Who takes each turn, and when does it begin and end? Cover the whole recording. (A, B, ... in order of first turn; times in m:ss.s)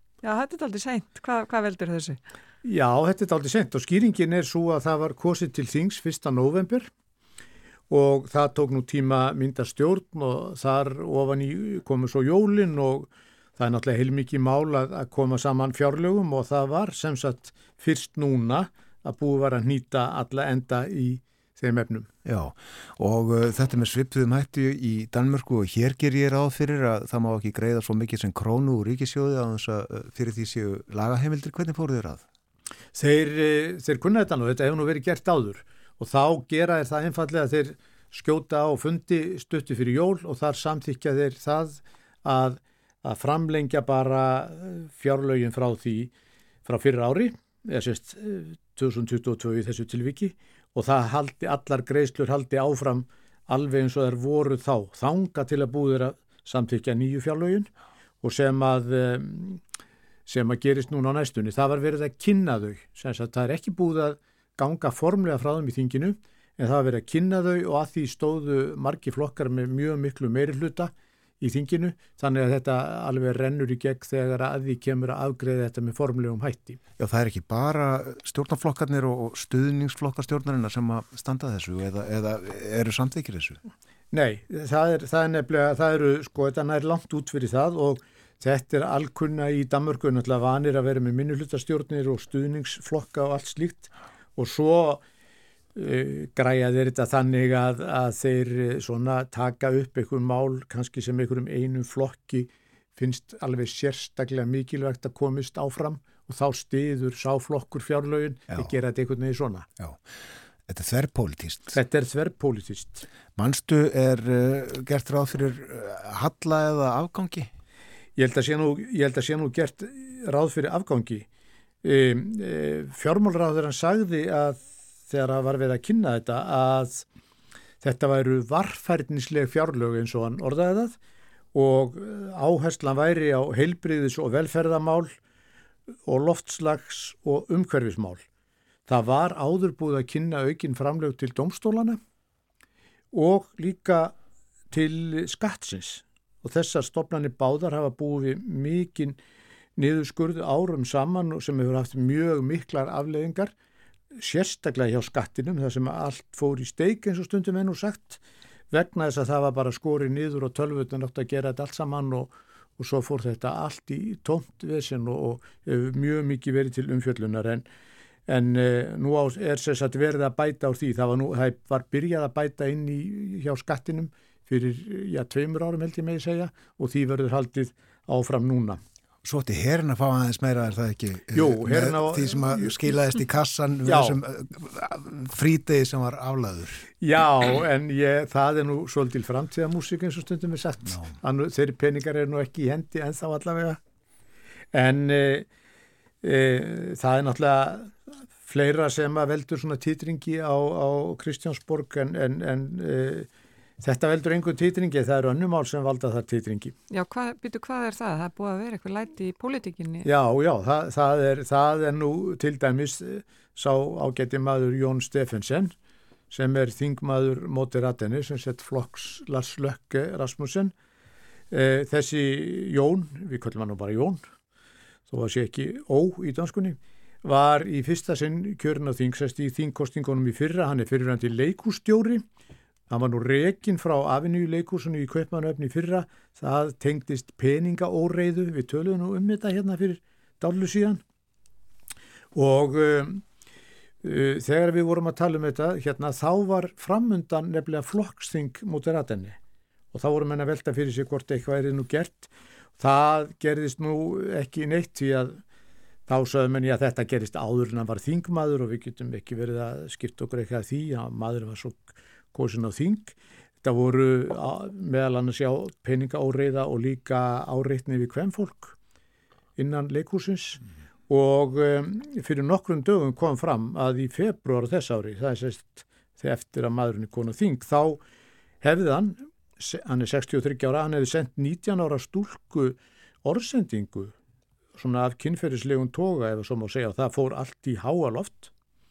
0:00.2-0:02.2 A
0:02.6-0:06.9 B
0:07.9-0:22.1 B
0:22.2-0:32.2 C
0:32.9-0:46.1 B
0:46.6-0:57.7 B
0:58.2-0:59.6 B
1:00.2-1:16.8 B
1:17.0-1:23.6 C
1:24.1-1:35.0 B
1:35.7-1:49.7 B
1:49.8-1:51.8 C
1:51.7-1:53.0 B
1:53.4-1:57.5 C
1:58.2-2:01.2 B
2:01.8-2:07.0 B
2:07.8-2:11.0 B
2:11.5-2:15.1 B
2:16.0-2:18.2 B
2:18.9-2:22.0 B
2:23.1-2:24.1 B
2:24.7-2:29.2 B
2:29.8-2:33.5 B
2:34.2-2:38.2 B
2:38.7-2:47.6 B
2:48.3-2:58.8 B
2:59.2-3:06.8 C
3:01.3-3:02.9 B
3:03.8-3:04.2 B
3:07.0-3:13.8 B
3:10.9-3:11.1 C
3:14.7-3:15.5 B
3:16.2-3:23.3 B
3:23.8-3:26.7 B
3:26.9-3:30.1 A
3:30.0-3:35.7 B
3:36.3-3:40.7 B
3:41.5-3:44.2 B
3:45.1-3:52.2 B
3:52.9-4:01.0 B
4:02.3-4:03.2 B
4:04.0-4:09.4 B
4:09.9-4:15.4 B
4:16.1-4:28.8 B
4:29.6-4:38.0 B
4:38.6-4:44.1 B
4:44.7-4:48.5 B